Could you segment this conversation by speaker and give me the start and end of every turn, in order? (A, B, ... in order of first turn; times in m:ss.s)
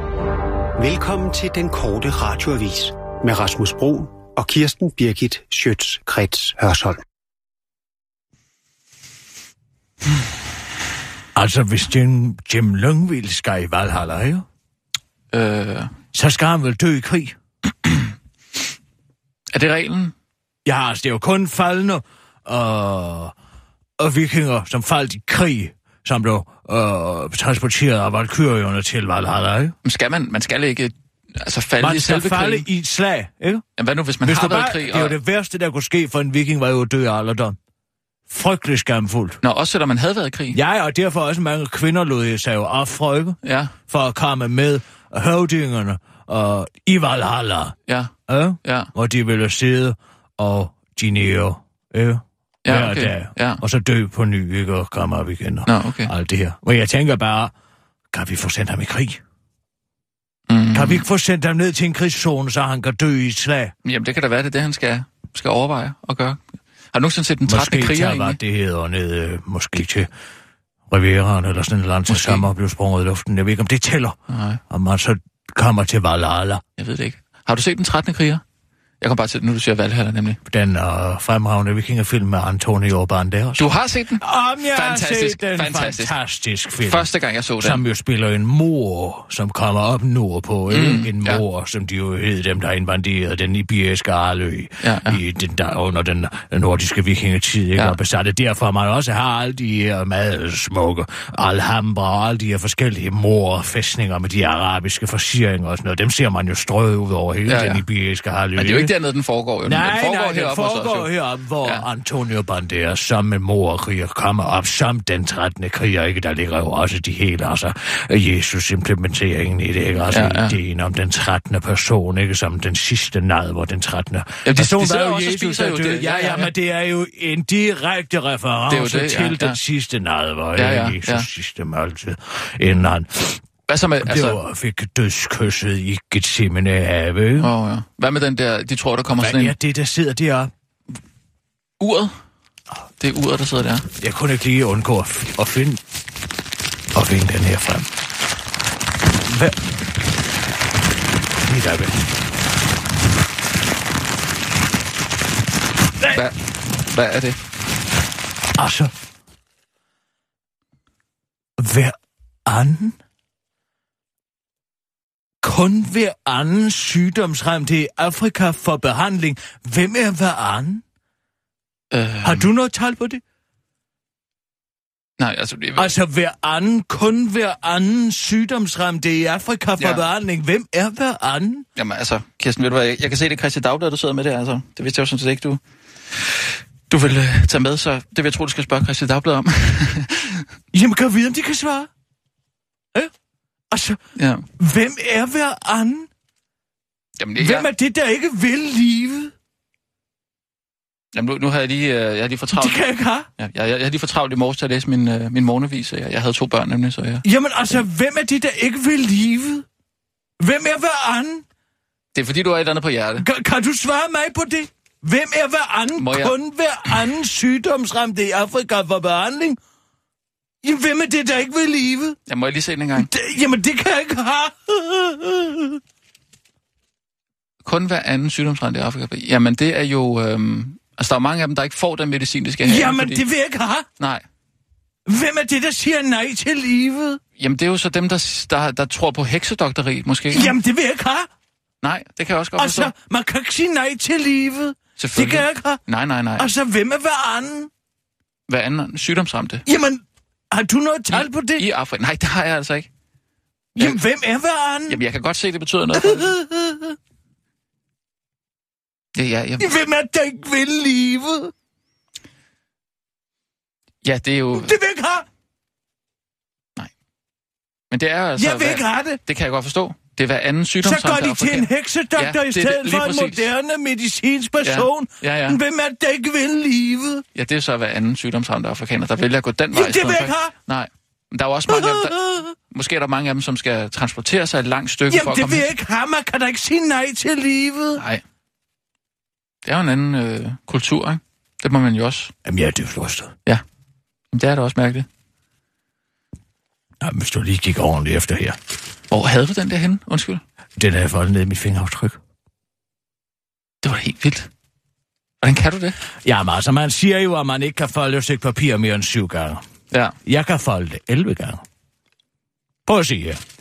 0:00.8-0:07.0 A
0:11.4-0:14.5 B
0:15.3-0:15.9 C
0:16.1-0:17.4 B
0:19.5-0:20.1 C
0:20.6-0:23.3 B
0:24.0-0:29.8 B
0:29.8-0:32.7 C
0:31.8-0:33.6 B
0:33.8-0:35.2 C
0:34.2-0:37.6 B
0:38.3-0:39.4 B
0:39.4-0:40.6 C
0:40.5-0:47.8 B
0:43.4-0:43.7 C
0:47.9-0:48.1 C
0:48.3-0:57.5 B
0:48.6-0:48.9 C
0:52.6-0:53.6 C
0:55.7-0:56.1 C
0:58.1-0:59.2 B
1:00.5-1:01.0 C
1:00.7-1:03.7 B
1:03.8-1:08.4 C
1:07.5-1:10.1 B
1:10.9-1:14.2 B
1:12.1-1:12.5 C
1:14.3-1:14.6 C
1:14.7-1:16.6 B
1:16.8-1:18.4 C
1:19.0-1:20.4 C
1:20.5-1:27.1 B
1:23.6-1:26.2 C
1:26.8-1:27.8 C
1:27.6-1:48.9 B
1:30.7-1:31.4 C
1:34.8-1:35.2 C
1:47.5-1:47.8 C
1:48.6-1:51.1 C
1:49.6-2:13.4 B
2:00.0-2:00.6 C
2:04.4-2:06.5 C
2:08.7-2:09.6 C
2:10.6-2:11.3 C
2:13.7-2:14.4 C
2:14.0-2:17.5 B
2:17.4-2:19.6 C
2:19.2-2:20.5 B
2:21.8-2:22.1 C
2:23.0-2:23.9 C
2:24.0-2:25.8 B
2:26.9-2:27.9 B
2:29.2-2:29.6 B
2:31.4-2:32.0 B
2:36.1-2:37.4 C
2:38.6-2:38.9 B
2:41.6-2:43.0 B
2:45.4-2:50.8 B
2:51.9-2:52.5 C
2:52.2-2:53.2 B
2:55.2-2:55.9 C
2:55.8-3:01.7 B
2:59.8-3:00.0 C
3:01.8-3:05.6 C
3:06.1-3:10.5 C
3:10.7-3:11.9 B
3:13.7-3:14.0 B
3:14.2-3:14.4 C
3:14.6-3:16.1 B
3:17.2-3:17.7 C
3:17.4-3:19.3 B
3:21.1-3:22.8 C
3:22.5-3:23.3 B
3:23.4-3:27.2 C
3:27.2-3:29.7 B
3:30.4-3:31.4 B
3:32.2-3:33.3 C
3:33.2-3:39.6 B
3:36.0-3:36.4 C
3:40.6-3:42.2 B
3:42.3-3:43.1 C
3:43.0-3:45.8 B
3:47.6-3:53.2 C
3:52.6-3:53.9 B
3:55.1-3:57.2 B
3:57.4-4:00.5 C
4:00.3-4:01.3 B
4:01.8-4:02.9 C
4:02.6-4:05.8 B
4:05.0-4:06.5 C
4:06.4-4:07.7 B
4:08.5-4:09.6 C
4:09.7-4:11.7 B
4:11.1-4:12.9 C
4:13.8-4:15.0 B
4:14.9-4:16.3 C
4:15.9-4:17.0 B
4:19.2-4:19.7 C
4:19.6-4:21.5 B
4:24.0-4:24.8 C
4:24.5-4:25.3 B
4:27.9-4:33.4 C
4:28.4-4:29.2 B
4:30.8-4:37.2 B
4:34.6-4:35.6 C
4:37.4-4:42.2 C
4:39.7-4:40.5 B
4:41.7-4:42.6 B
4:42.7-4:45.7 C
4:45.1-4:48.0 B
4:48.0-4:48.2 C
4:49.6-4:52.3 C
4:52.4-4:53.4 B
4:54.3-4:55.1 C
4:57.0-4:58.6 B
4:59.1-5:00.4 C
5:00.8-5:02.2 B
5:03.8-5:04.5 C
5:05.4-5:06.0 C
5:06.2-5:09.6 B
5:09.9-5:10.2 C
5:10.2-5:11.6 B
5:12.9-5:13.4 B